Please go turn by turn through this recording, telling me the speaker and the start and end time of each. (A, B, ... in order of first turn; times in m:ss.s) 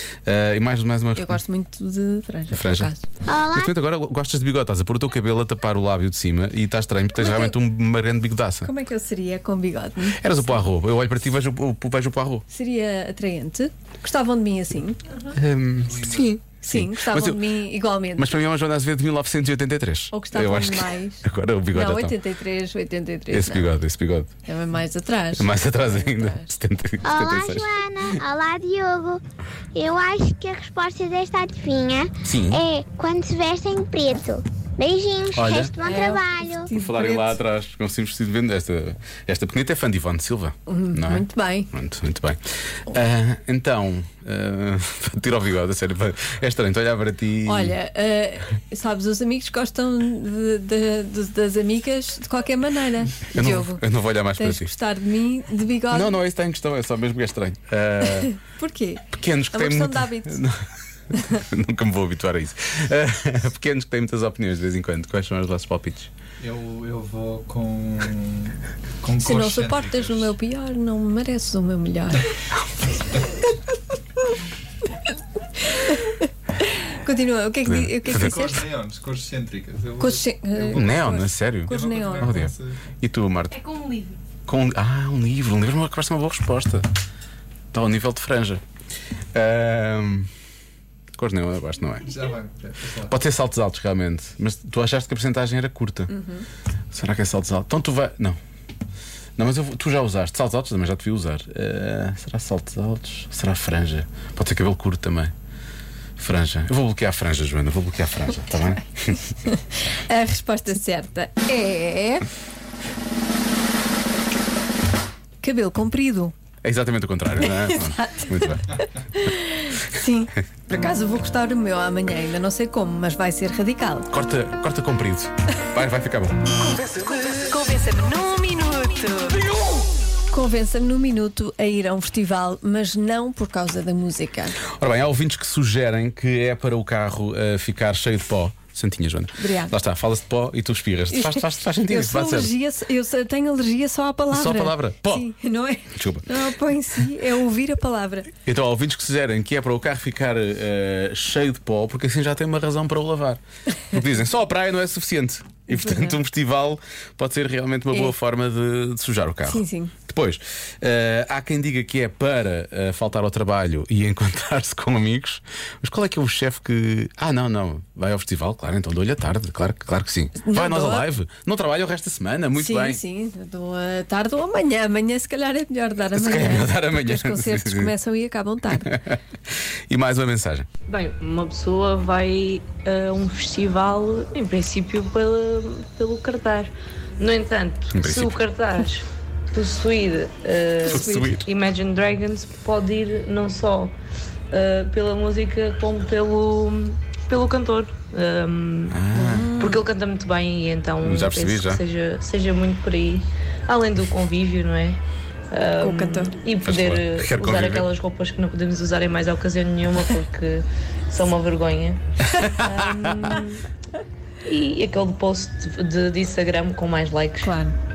0:00.2-0:01.4 A
0:01.2-0:03.0 B
0:02.5-0:02.9 A
0:03.3-0:03.7 C
0:03.5-0:08.7 A
0:07.2-0:07.6 B
0:08.6-0:10.5 B
0:10.1-0:12.4 A
0:12.5-0:15.0 B
0:15.3-0:16.1 A
0:15.9-0:16.4 D
0:16.1-0:18.3 B
0:16.7-0:17.4 A
0:18.1-0:22.2 A
0:20.1-0:23.7 B
0:23.3-0:24.3 A
0:24.4-0:26.5 B
0:25.3-0:28.2 A
0:27.0-0:29.2 C
0:29.7-0:36.7 C
0:32.2-0:32.6 A
0:35.3-0:35.8 A
0:35.8-0:37.4 B
0:36.7-0:47.7 A
0:40.7-0:41.7 B
0:47.4-0:56.2 B
0:53.3-0:54.7 A
0:55.9-0:58.4 A
0:58.0-1:00.4 B
0:59.1-1:00.5 A
1:01.2-1:06.1 A
1:06.4-1:10.3 D
1:09.2-1:12.2 B
1:15.6-1:18.6 B
1:17.6-1:18.4 A
1:18.0-1:21.1 D
1:20.0-1:22.4 B
1:20.7-1:23.8 A
1:21.6-1:22.8 D
1:24.5-1:26.8 A
1:27.7-1:28.6 A
1:29.3-1:30.3 A
1:31.2-1:32.1 A
1:32.0-1:33.1 D
1:33.0-1:36.1 A
1:36.1-1:36.4 B
1:36.9-1:38.4 A
1:39.4-1:45.3 A
1:46.2-1:49.2 A
1:49.4-1:52.3 B
1:55.4-1:56.3 B
1:56.6-1:58.7 A
1:57.4-2:04.1 B
2:04.1-2:06.4 A
2:06.6-2:09.5 B
2:10.3-2:14.6 B
2:14.8-2:22.5 A
2:19.4-2:19.7 B
2:21.1-2:28.3 B
2:24.3-2:25.3 A
2:25.9-2:26.4 A
2:28.4-2:33.4 A
2:33.9-2:53.0 A
2:35.7-2:36.2 B
2:37.9-2:38.2 B
2:39.4-2:39.9 B
2:50.4-2:51.0 B
2:52.5-2:59.0 B
2:56.1-2:57.9 A
2:58.7-2:59.2 A
2:59.9-3:00.7 A
3:00.9-3:13.9 E
3:07.9-3:08.4 A
3:10.8-3:11.4 B
3:10.9-3:11.4 A
3:14.5-3:19.0 E
3:18.9-3:19.6 A
3:19.1-3:19.8 B
3:19.6-3:25.0 E
3:21.0-3:21.8 A
3:25.5-3:33.6 E
3:25.8-3:26.3 B
3:26.6-3:27.9 A
3:32.4-3:32.7 A
3:34.4-3:37.5 E
3:37.4-3:37.7 B